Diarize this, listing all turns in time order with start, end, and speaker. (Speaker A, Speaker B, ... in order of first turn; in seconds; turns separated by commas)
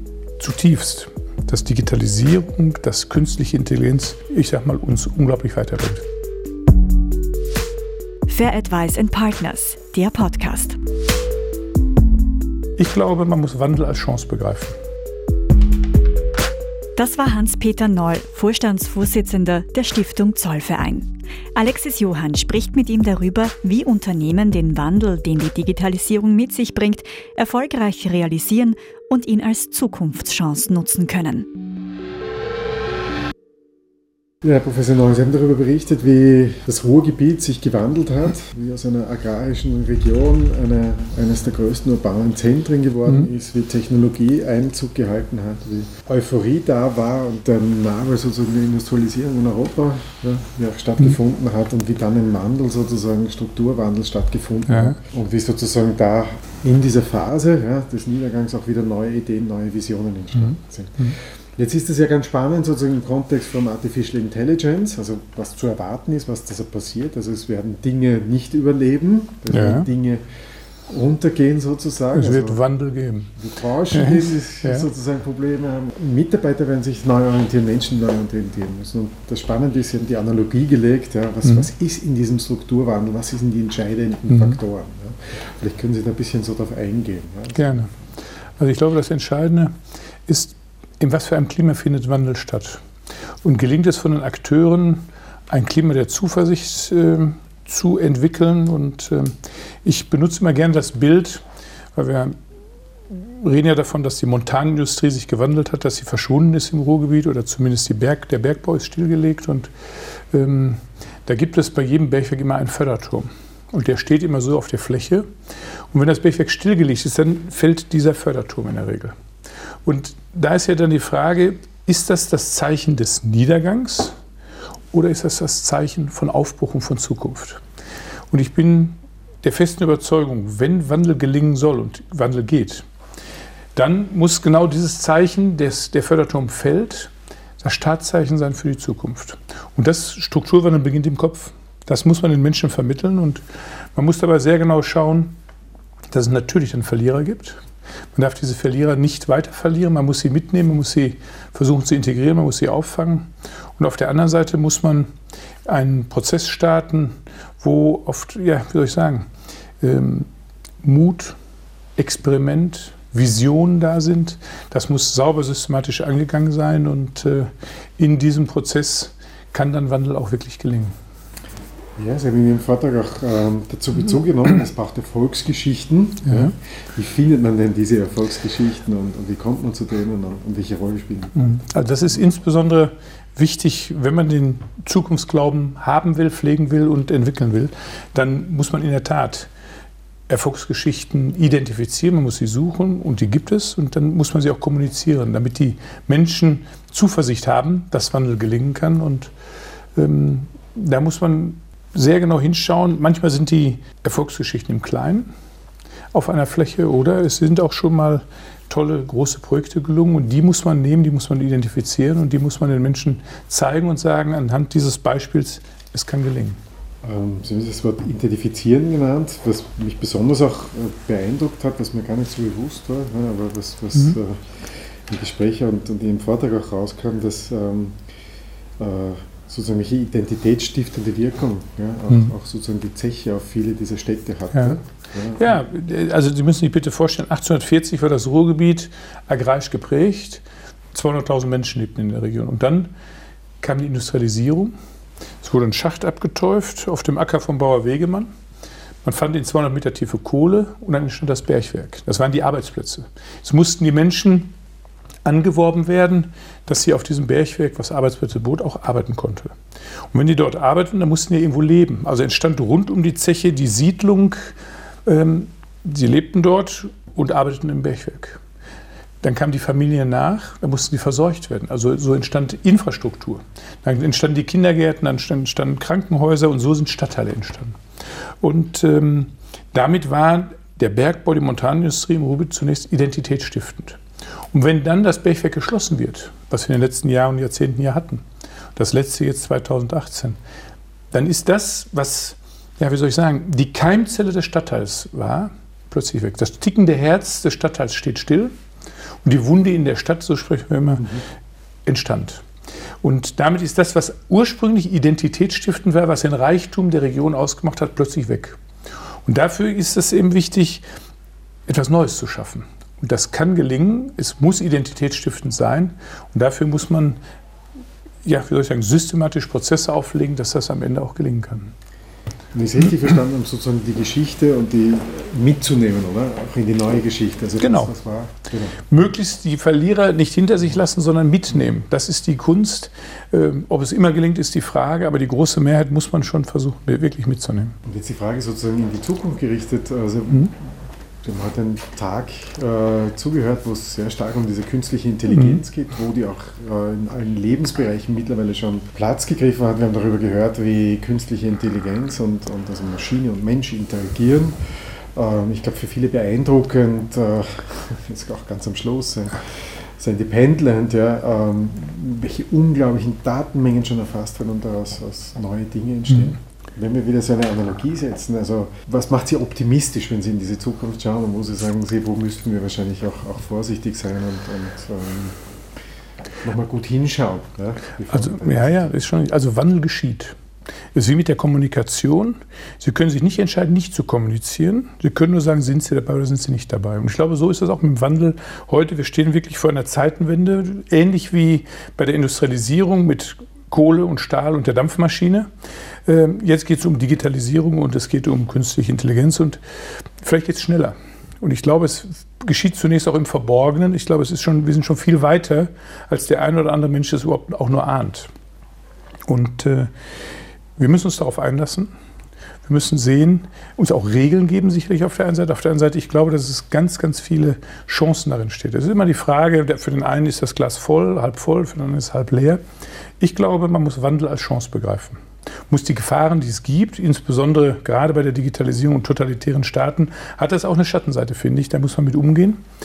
Speaker A: 0.4-6.0, Speaker B: 8.3-10.8, Speaker A: 12.8-14.8, Speaker B: 17.0-31.5, Speaker C: 34.4-70.2, Speaker A: 54.7-55.0, Speaker A: 60.4-61.1, Speaker A: 69.5-69.9, Speaker C: 70.9-72.6, Speaker A: 72.1-73.3, Speaker C: 73.4-87.7, Speaker A: 73.9-74.9, Speaker A: 84.3-84.6, Speaker A: 87.5-87.9, Speaker A: 88.6-89.7, Speaker A: 90.3-92.8, Speaker A: 93.4-101.4, Speaker A: 102.0-102.4, Speaker A: 103.1-109.7, Speaker A: 110.3-115.3, Speaker A: 115.9-119.1, Speaker A: 119.8-124.2, Speaker A: 124.9-127.6, Speaker A: 128.3-132.8, Speaker A: 133.8-143.4, Speaker A: 143.9-145.3, Speaker A: 146.1-147.6, Speaker A: 148.2-155.1, Speaker A: 155.7-159.3, Speaker A: 159.8-160.3, Speaker A: 160.8-161.4, Speaker A: 162.0-170.9, Speaker C: 172.0-181.4, Speaker A: 181.4-189.5, Speaker A: 190.3-199.3, Speaker A: 200.0-205.3, Speaker A: 206.1-216.6, Speaker C: 217.0-224.4, Speaker C: 225.1-227.9, Speaker C: 228.8-235.6, Speaker A: 234.5-234.8, Speaker A: 235.4-242.9, Speaker A: 243.6-244.7, Speaker A: 245.4-248.3, Speaker A: 249.0-254.5, Speaker A: 255.2-259.5, Speaker A: 260.1-264.5, Speaker A: 265.1-268.4, Speaker A: 269.2-277.8, Speaker A: 278.4-284.0, Speaker A: 284.5-288.2, Speaker A: 288.8-290.4, Speaker A: 291.1-298.5, Speaker A: 299.2-301.2, Speaker A: 301.9-302.4, Speaker A: 303.0-308.6, Speaker A: 309.3-310.8, Speaker A: 311.7-317.2, Speaker A: 318.2-321.7, Speaker C: 322.5-328.8, Speaker A: 327.6-327.9, Speaker A: 328.9-337.8, Speaker C: 337.9-340.7, Speaker C: 341.2-354.5, Speaker A: 345.3-345.6, Speaker C: 355.1-375.4, Speaker C: 376.4-378.9, Speaker A: 378.1-380.4, Speaker A: 380.9-395.5, Speaker A: 396.1-399.6, Speaker A: 400.2-408.3, Speaker A: 409.3-409.9, Speaker A: 410.8-411.9, Speaker A: 412.6-422.6, Speaker A: 423.2-432.6